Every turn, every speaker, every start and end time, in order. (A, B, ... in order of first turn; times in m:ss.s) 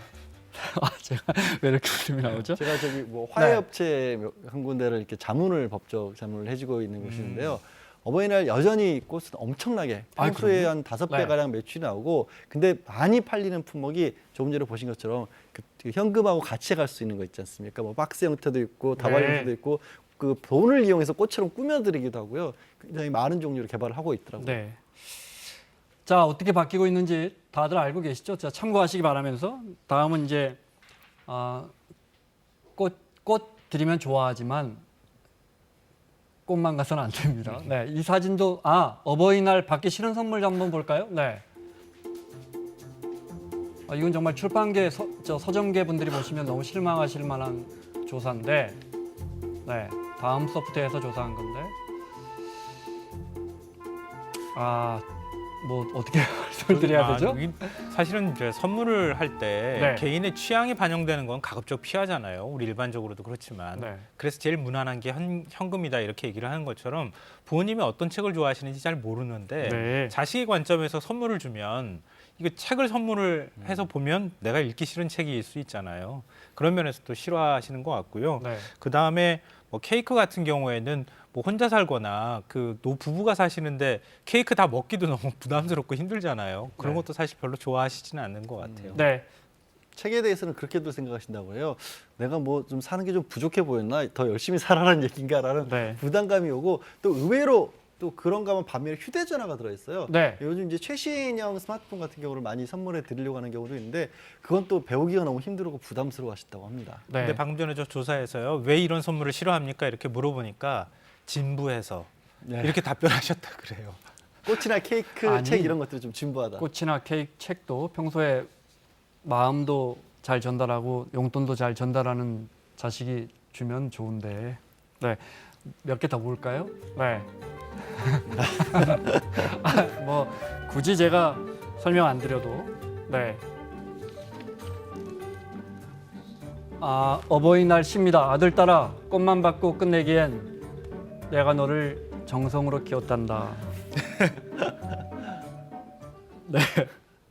0:00.5-0:03.6 A
0:02.4-0:24.6 B
0:07.0-0:07.5 C
0:10.2-0:11.4 A
0:19.0-0:19.5 A
0:24.4-0:25.2 A
0:26.0-0:30.6 A
0:31.3-0:31.7 A
0:32.8-0:34.8 A
0:36.4-0:41.4 A
0:43.9-0:48.8 A
0:49.6-0:51.7 A
0:54.5-0:55.0 A
0:55.6-0:57.6 A
0:56.7-1:29.0 C
0:59.7-1:00.0 A
1:03.7-1:04.0 A
1:09.6-1:10.2 A
1:18.4-1:18.7 A
1:26.8-1:27.0 A
1:28.6-1:29.1 B
1:28.9-1:29.2 A
1:30.0-1:47.0 B
1:35.6-1:36.0 A
1:40.1-1:40.4 A
1:47.1-1:47.4 A
1:47.2-1:54.0 C
1:52.4-1:52.8 B
1:54.4-1:56.7 B
1:55.2-1:55.8 A
1:56.6-1:58.5 A
1:59.2-2:07.3 A
2:07.8-2:13.4 A
2:16.8-2:20.5 A
2:21.3-2:23.7 A
2:26.4-2:26.9 A